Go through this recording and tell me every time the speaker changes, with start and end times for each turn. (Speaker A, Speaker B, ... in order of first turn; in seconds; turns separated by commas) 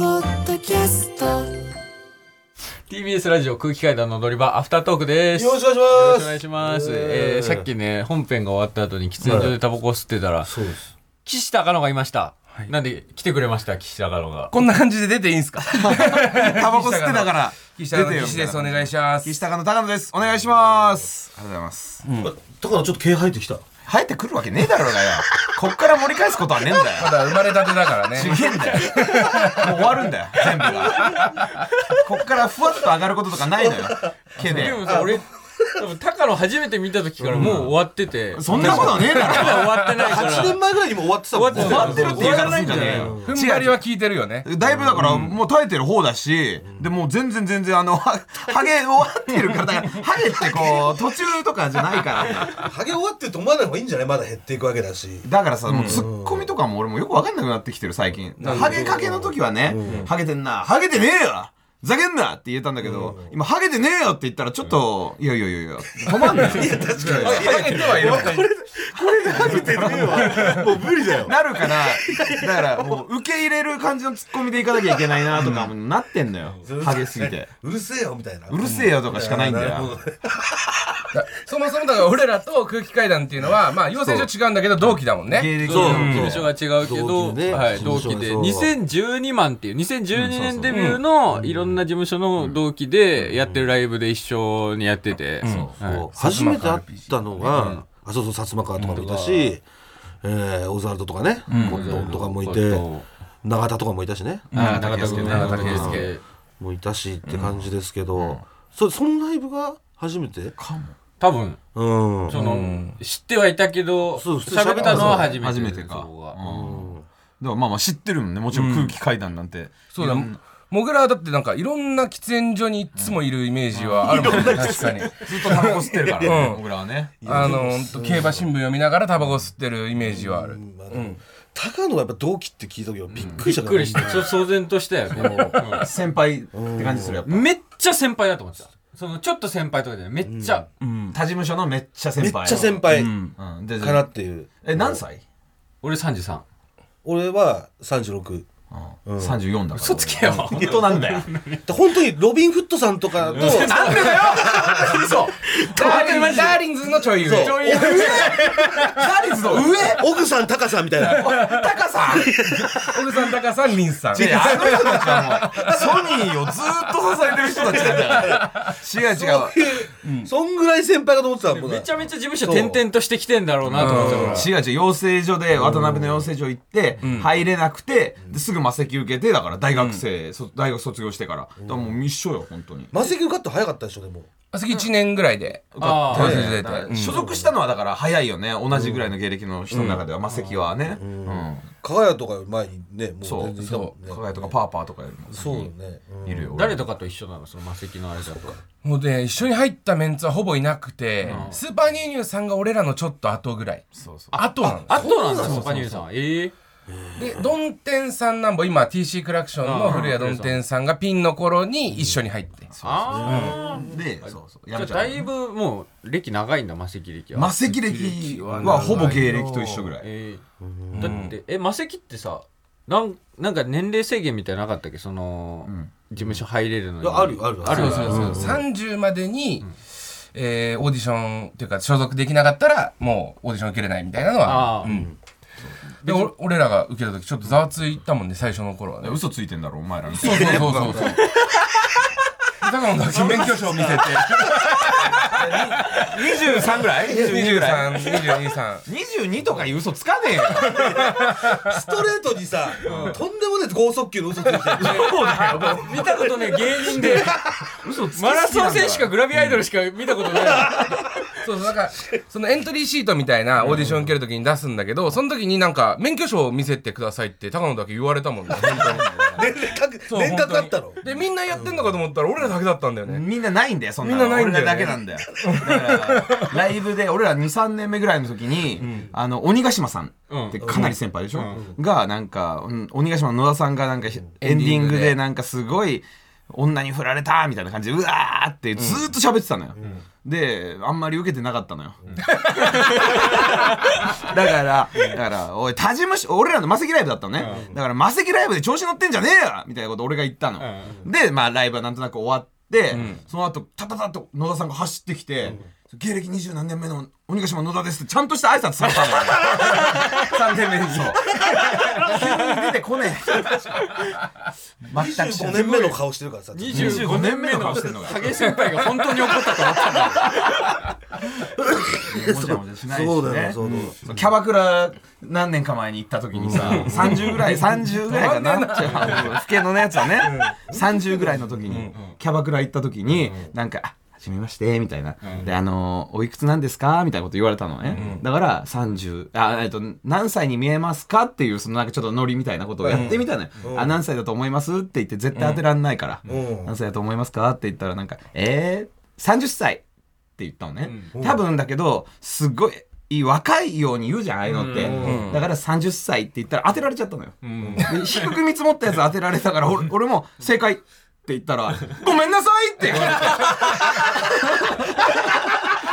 Speaker A: 2.9-10.5, Speaker B: 5.3-7.7, Speaker B: 9.2-9.6, Speaker B: 10.4-10.8, Speaker A: 11.2-14.5, Speaker C: 14.5-19.4, Speaker D: 15.7-22.0, Speaker C: 22.0-22.3, Speaker B: 22.2-23.6, Speaker D: 23.9-27.3, Speaker C: 27.0-30.1, Speaker D: 28.1-31.3, Speaker B: 30.6-31.2, Speaker C: 31.0-31.5, Speaker D: 31.9-34.9, Speaker A: 34.5-40.6, Speaker B: 34.8-35.2, Speaker D: 37.3-37.8, Speaker D: 38.3-39.7, Speaker B: 38.5-39.1, Speaker C: 38.7-40.2, Speaker B: 40.0-43.3, Speaker A: 41.3-43.1, Speaker D: 41.5-43.8, Speaker C: 41.5-44.5, Speaker D: 44.4-52.7, Speaker B: 44.7-45.1, Speaker A: 45.0-45.2, Speaker B: 46.6-46.9, Speaker B: 50.4-51.1, Speaker B: 52.4-55.3, Speaker D: 55.2-67.6, Speaker C: 55.7-56.0, Speaker B: 55.8-56.5, Speaker C: 58.4-59.0, Speaker B: 58.4-60.1, Speaker B: 62.8-63.3, Speaker B: 66.0-73.0, Speaker C: 66.3-68.5, Speaker A: 66.5-68.3, Speaker D: 68.9-77.5, Speaker C: 70.0-70.6, Speaker B: 76.5-80.4, Speaker D: 78.5-80.0, Speaker C: 78.6-79.0, Speaker C: 81.1-86.4, Speaker D: 85.3-86.5, Speaker A: 85.6-96.1, Speaker B: 85.7-88.8, Speaker D: 87.5-88.0, Speaker D: 90.2-90.7, Speaker C: 90.7-91.0, Speaker B: 91.3-91.8, Speaker C: 95.4-97.5, Speaker D: 95.4-95.7, Speaker B: 95.8-99.6, Speaker A: 97.5-97.8, Speaker C: 98.8-99.0, Speaker A: 98.9-99.6, Speaker B: 100.2-102.9, Speaker D: 101.5-102.1, Speaker C: 101.5-101.8, Speaker A: 101.6-103.1, Speaker B: 103.4-104.5, Speaker D: 104.5-106.1, Speaker C: 104.5-106.1, Speaker A: 104.6-106.2, Speaker B: 105.3-106.1, Speaker B: 106.6-110.5, Speaker D: 107.3-108.4, Speaker D: 110.6-111.0, Speaker A: 111.2-111.6, Speaker B: 111.8-112.5, Speaker A: 112.3-116.4, Speaker C: 112.4-113.0, Speaker B: 114.1-115.4, Speaker D: 114.8-120.4, Speaker B: 116.4-117.0, Speaker C: 118.5-119.0, Speaker C: 119.9-126.6, Speaker D: 123.0-124.6, Speaker A: 123.8-125.1, Speaker B: 124.0-125.7, Speaker D: 125.2-127.6, Speaker B: 126.2-126.5, Speaker B: 127.2-128.5, Speaker C: 127.2-131.2, Speaker B: 130.0-134.4, Speaker D: 133.1-133.5, Speaker A: 133.2-135.9, Speaker C: 135.2-135.9, Speaker D: 135.8-137.5, Speaker B: 136.5-137.2, Speaker A: 137.3-140.7, Speaker B: 140.2-140.7, Speaker C: 140.8-141.2, Speaker D: 141.1-144.1, Speaker B: 142.2-143.2, Speaker B: 143.8-145.0, Speaker D: 144.6-145.2, Speaker A: 145.8-146.4, Speaker B: 147.0-148.5, Speaker D: 148.7-151.3, Speaker B: 149.1-149.4, Speaker A: 149.7-151.6, Speaker B: 150.2-150.9, Speaker B: 151.7-155.9, Speaker D: 153.3-156.6, Speaker A: 153.3-156.7, Speaker C: 155.8-159.6, Speaker B: 157.0-161.4, Speaker A: 157.2-158.2, Speaker D: 157.6-160.1, Speaker D: 161.0-162.3, Speaker C: 161.1-161.7, Speaker B: 162.0-163.4, Speaker C: 162.7-165.9, Speaker D: 164.1-169.7, Speaker B: 164.6-166.6, Speaker B: 167.5-172.8, Speaker C: 167.8-168.7, Speaker C: 170.0-170.3, Speaker A: 171.5-174.5, Speaker D: 173.7-182.9, Speaker C: 173.7-174.5, Speaker B: 173.8-174.4, Speaker B: 175.6-176.3, Speaker C: 177.0-177.3, Speaker C: 179.7-180.0, Speaker B: 181.6-182.0, Speaker B: 182.9-184.3, Speaker C: 184.5-187.2, Speaker D: 185.7-191.7, Speaker A: 185.8-186.5, Speaker B: 187.1-187.6, Speaker B: 188.7-189.1, Speaker B: 189.7-190.0, Speaker C: 189.7-190.0, Speaker A: 190.3-190.7, Speaker B: 190.8-194.6, Speaker D: 193.2-195.7, Speaker C: 193.6-193.9, Speaker B: 195.3-196.5, Speaker D: 196.2-196.9, Speaker A: 196.5-198.6, Speaker B: 198.3-198.6, Speaker C: 198.8-205.1, Speaker D: 201.2-201.5, Speaker A: 201.2-201.6, Speaker D: 203.9-204.4, Speaker A: 204.3-206.5, Speaker B: 204.6-205.7, Speaker D: 205.4-206.1, Speaker B: 206.9-207.6, Speaker C: 207.2-212.7, Speaker A: 209.6-210.6, Speaker D: 212.7-215.3, Speaker A: 212.8-217.6, Speaker B: 213.1-214.0, Speaker C: 213.2-213.6, Speaker D: 217.3-220.1, Speaker C: 217.7-219.3, Speaker A: 218.6-219.1, Speaker B: 218.7-219.9, Speaker A: 220.0-220.4, Speaker B: 220.6-221.2, Speaker C: 220.9-221.3, Speaker A: 221.0-228.6, Speaker D: 225.7-225.9, Speaker B: 227.0-228.6, Speaker C: 227.7-229.7, Speaker C: 230.3-235.1, Speaker A: 234.4-235.1, Speaker A: 236.0-236.3, Speaker C: 236.0-239.2, Speaker D: 239.0-241.2, Speaker C: 240.1-241.2, Speaker B: 240.2-241.2, Speaker C: 242.6-248.8, Speaker B: 243.1-244.7, Speaker D: 245.2-248.1, Speaker B: 247.0-247.4, Speaker D: 248.9-251.0, Speaker C: 250.5-251.6, Speaker B: 250.8-255.2, Speaker A: 252.9-253.2, Speaker C: 254.8-255.9, Speaker A: 254.8-257.4, Speaker D: 254.8-255.7, Speaker B: 255.8-257.4, Speaker D: 257.8-259.6, Speaker A: 258.1-260.8, Speaker B: 260.3-261.2, Speaker C: 261.4-269.5, Speaker D: 263.6-264.1, Speaker D: 268.6-269.5, Speaker B: 269.4-272.0, Speaker C: 270.1-273.2, Speaker D: 273.1-293.2, Speaker C: 274.0-276.6, Speaker B: 275.3-275.6, Speaker B: 278.8-279.1, Speaker A: 280.3-281.6, Speaker B: 280.6-281.8, Speaker C: 284.4-285.2, Speaker C: 288.8-289.1, Speaker B: 289.8-290.1, Speaker B: 292.0-292.3, Speaker C: 292.2-293.5, Speaker D: 294.1-313.7, Speaker A: 297.4-297.7, Speaker B: 297.4-297.8, Speaker A: 300.6-300.9, Speaker C: 302.9-303.2, Speaker B: 305.4-305.7, Speaker C: 309.3-312.2, Speaker D: 314.8-316.0, Speaker B: 314.9-317.1, Speaker A: 316.5-320.5, Speaker D: 316.7-318.4, Speaker B: 321.4-324.3, Speaker D: 322.0-349.8, Speaker B: 326.5-326.9, Speaker C: 326.5-330.6, Speaker A: 326.8-327.1, Speaker B: 330.7-331.9, Speaker C: 331.7-331.9, Speaker B: 333.2-333.5, Speaker A: 335.2-335.5, Speaker C: 337.9-338.2, Speaker B: 342.8-344.0, Speaker C: 342.9-343.2, Speaker C: 345.4-345.6, Speaker B: 346.3-346.7, Speaker D: 350.4-363.9, Speaker A: 350.8-351.1, Speaker B: 351.1-351.4, Speaker A: 354.5-355.1, Speaker B: 354.8-355.4, Speaker C: 354.9-355.4, Speaker A: 357.4-358.3, Speaker B: 357.6-357.9, Speaker C: 362.9-363.8, Speaker A: 363.0-363.3, Speaker B: 363.4-364.1, Speaker B: 365.0-365.8